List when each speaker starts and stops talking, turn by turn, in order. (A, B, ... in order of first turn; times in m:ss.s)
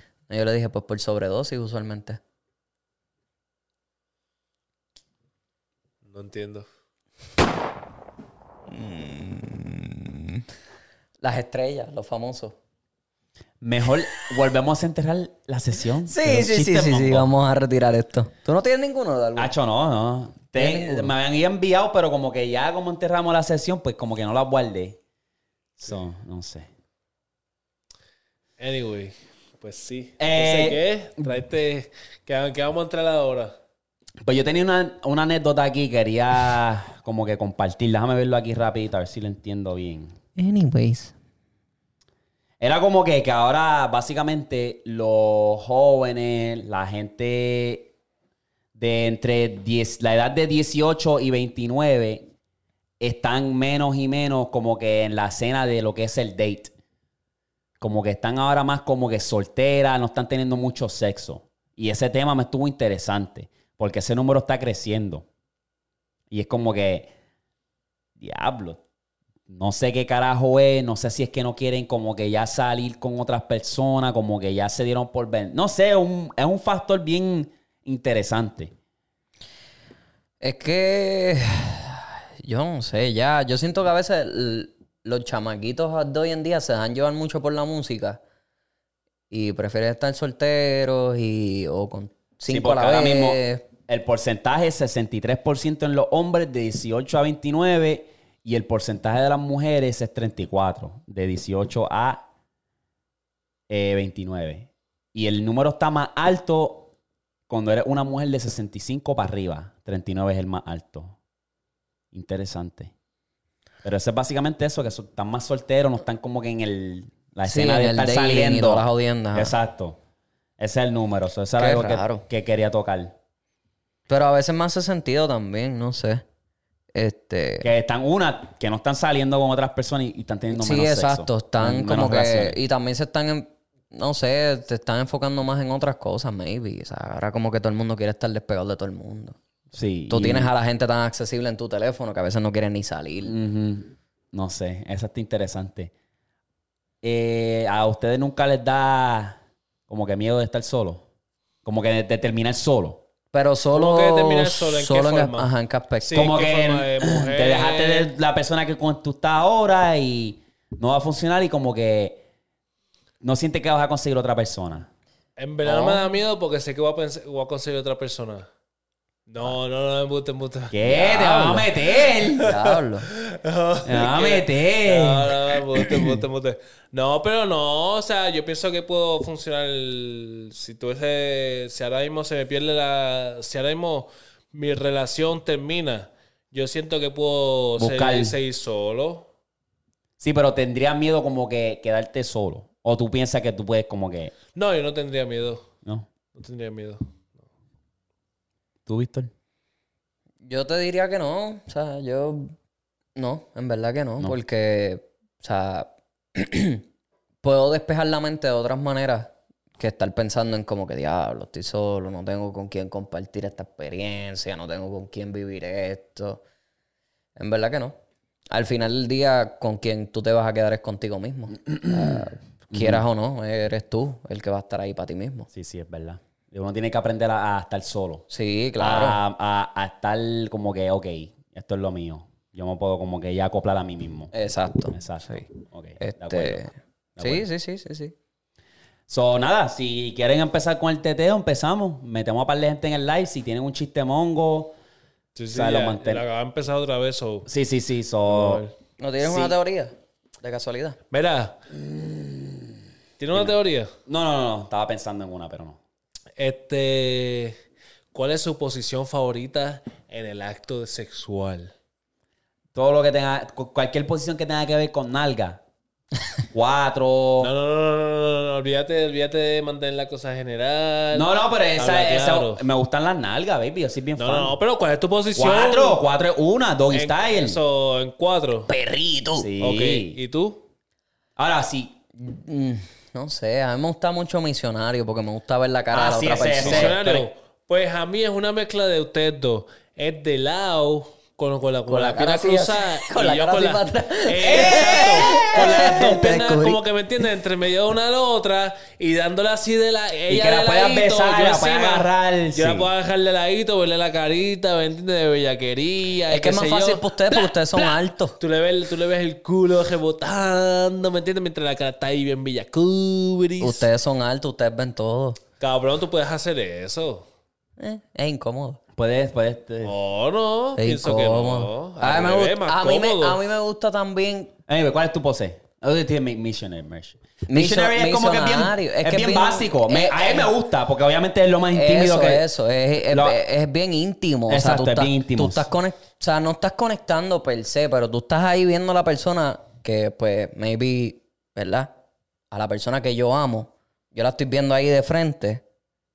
0:00.3-0:02.2 A
0:06.0-0:06.6 B
0:08.7-0:10.4 A
0:11.2-0:12.6 A
0:13.6-0:17.3 C
0:16.0-0:19.5 A
0:19.4-0:25.0 C
0:20.5-0:21.1 A
0:25.8-0:26.7 C
0:28.6-0:33.5 B
0:30.2-0:31.3 C
0:34.2-0:40.1 C
0:40.4-0:41.1 A
0:42.6-0:47.9 C
0:48.8-0:52.3 C
0:53.0-0:56.7 C
0:57.8-1:05.2 C
1:06.3-1:07.1 C
1:08.2-1:08.8 C
1:09.5-1:18.7 C
1:20.4-1:28.2 A
1:29.3-1:33.7 A
1:32.5-1:42.2 C
1:43.7-1:46.9 C
1:47.5-1:51.1 C
1:52.1-1:52.9 C
1:53.8-2:00.0 C
1:57.4-1:59.5 A
2:00.6-2:03.1 C
2:01.6-2:02.2 A
2:04.1-2:06.2 A
2:06.9-2:07.7 A
2:07.6-2:12.6 C
2:10.5-2:19.4 A
2:19.7-2:20.5 C
2:20.1-2:23.3 A
2:23.2-2:25.9 C
2:27.0-2:31.0 C
2:31.6-2:33.0 C
2:33.3-2:36.3 A
2:33.7-2:35.5 B
2:36.0-2:38.1 B
2:36.1-2:42.2 C
2:43.2-2:44.9 C
2:45.4-2:48.5 B
2:45.6-2:46.0 A
2:49.3-2:51.7 B
2:50.7-2:52.4 C
2:50.9-2:51.6 A
2:52.4-2:53.1 A
2:52.4-3:09.3 B
2:53.8-2:55.3 C
3:07.8-3:08.4 C
3:10.2-3:14.3 C
3:14.5-3:15.7 B
3:16.3-3:17.0 B
3:18.9-3:19.3 C
3:20.4-3:22.5 A
3:23.1-3:26.8 A
3:27.4-3:36.4 A
3:37.4-3:38.0 A
3:38.5-3:45.5 A
3:41.8-3:42.2 C
3:42.7-3:43.0 C
3:45.5-3:48.2 C
3:48.3-3:49.2 A
3:48.8-3:54.3 C
3:54.3-3:55.5 A
3:54.9-3:57.5 C
3:56.0-3:58.1 A
3:59.1-4:04.7 C
4:05.3-4:07.5 B
4:05.5-4:06.2 C
4:07.4-4:08.6 C
4:08.3-4:08.7 B
4:09.0-4:11.0 A
4:09.2-4:09.6 C
4:11.1-4:11.6 B
4:11.7-4:12.7 C
4:13.2-4:13.9 B
4:14.0-4:15.8 C
4:16.4-4:17.6 B
4:18.1-4:21.7 B
4:22.7-4:25.6 C
4:26.5-4:27.5 C
4:27.4-4:32.6 B
4:31.1-4:34.5 C
4:34.2-4:36.0 B
4:35.4-4:37.6 C
4:36.9-4:38.7 B
4:38.7-4:39.5 A
4:39.4-4:40.2 C
4:39.6-4:40.6 B
4:41.4-4:42.0 C
4:42.2-4:47.0 A
4:45.9-4:47.3 C
4:46.5-5:13.9 B
4:51.9-4:56.8 A
4:54.4-4:55.6 C
5:00.3-5:02.9 C
5:06.3-5:08.4 A
5:13.6-5:15.4 A
5:15.6-5:17.2 B
5:17.8-5:18.8 A
5:18.9-5:19.9 C
5:19.8-5:23.4 B
5:20.8-5:24.5 A
5:24.7-5:32.4 C
5:27.5-5:30.5 A
5:31.7-5:41.9 A
5:33.0-5:33.4 C
5:34.5-5:35.7 C
5:42.5-5:45.6 A